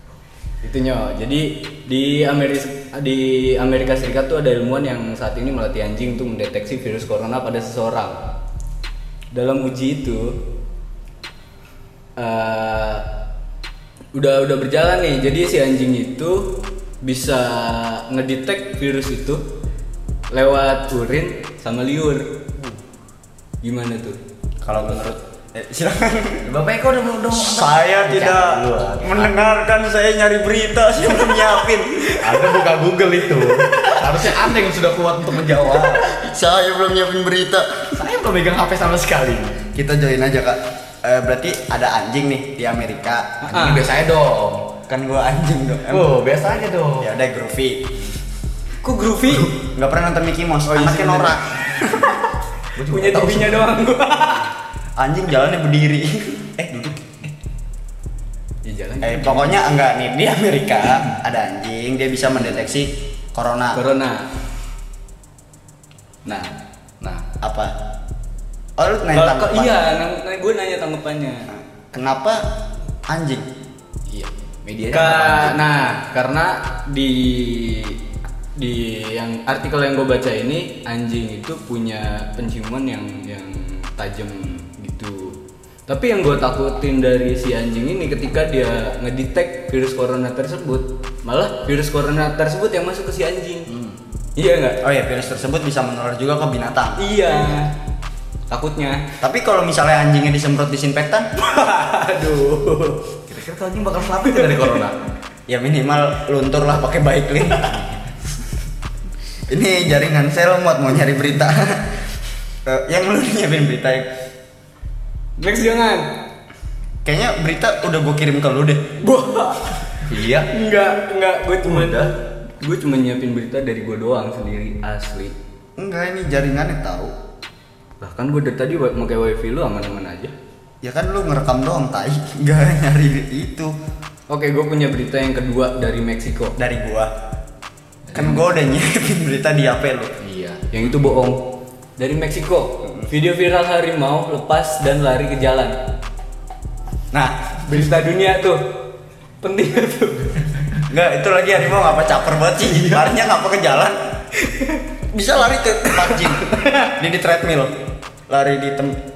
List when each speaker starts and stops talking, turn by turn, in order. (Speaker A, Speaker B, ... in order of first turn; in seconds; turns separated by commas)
Speaker A: 0.6-8.2, Speaker A: 9.3-10.4, Speaker A: 12.2-13.1, Speaker A: 14.1-16.5, Speaker A: 17.0-19.4, Speaker A: 20.3-22.4, Speaker A: 23.6-24.2, Speaker B: 24.6-26.4, Speaker A: 24.7-25.0, Speaker C: 26.4-29.3, Speaker B: 27.3-32.6, Speaker C: 32.2-36.0, Speaker B: 35.7-38.0, Speaker C: 38.0-39.7, Speaker B: 39.7-43.3, Speaker A: 43.4-43.8, Speaker C: 43.5-44.7, Speaker B: 44.9-46.1, Speaker C: 45.9-47.1, Speaker B: 47.0-48.0, Speaker A: 48.8-49.5, Speaker B: 49.5-52.2, Speaker A: 50.7-51.4, Speaker C: 52.8-53.8, Speaker A: 52.9-54.5, Speaker B: 55.0-57.3, Speaker A: 58.6-59.6, Speaker B: 59.0-63.8, Speaker A: 63.7-64.3, Speaker B: 66.2-66.5, Speaker B: 67.4-67.7, Speaker B: 68.8-69.8, Speaker A: 69.1-71.5, Speaker B: 71.5-72.4, Speaker B: 73.1-73.5, Speaker C: 74.1-75.6, Speaker A: 74.9-78.0, Speaker A: 78.5-93.7, Speaker C: 93.7-94.0, Speaker A: 94.3-94.8, Speaker B: 94.8-97.0, Speaker A: 97.0-97.7, Speaker A: 98.5-99.0, Speaker B: 99.2-101.3, Speaker A: 101.4-103.0, Speaker C: 103.3-105.0, Speaker B: 105.5-107.9, Speaker B: 109.5-111.9, Speaker B: 112.7-114.1, Speaker A: 115.4-116.1, Speaker B: 117.0-119.0, Speaker A: 119.0-119.8, Speaker C: 120.1-120.5, Speaker A: 120.5-125.3, Speaker C: 121.6-122.1, Speaker B: 125.8-127.1, Speaker A: 128.0-130.3, Speaker B: 130.8-133.7, Speaker A: 134.3-136.6, Speaker B: 136.6-137.1, Speaker C: 138.1-138.5, Speaker B: 138.1-140.1, Speaker C: 140.2-140.7, Speaker A: 140.7-141.4, Speaker A: 142.0-145.8, Speaker B: 147.1-147.6, Speaker A: 147.7-148.7, Speaker A: 149.4-150.5, Speaker B: 150.8-154.0, Speaker A: 154.4-154.8, Speaker B: 155.1-157.7, Speaker A: 155.9-156.9, Speaker B: 158.3-159.0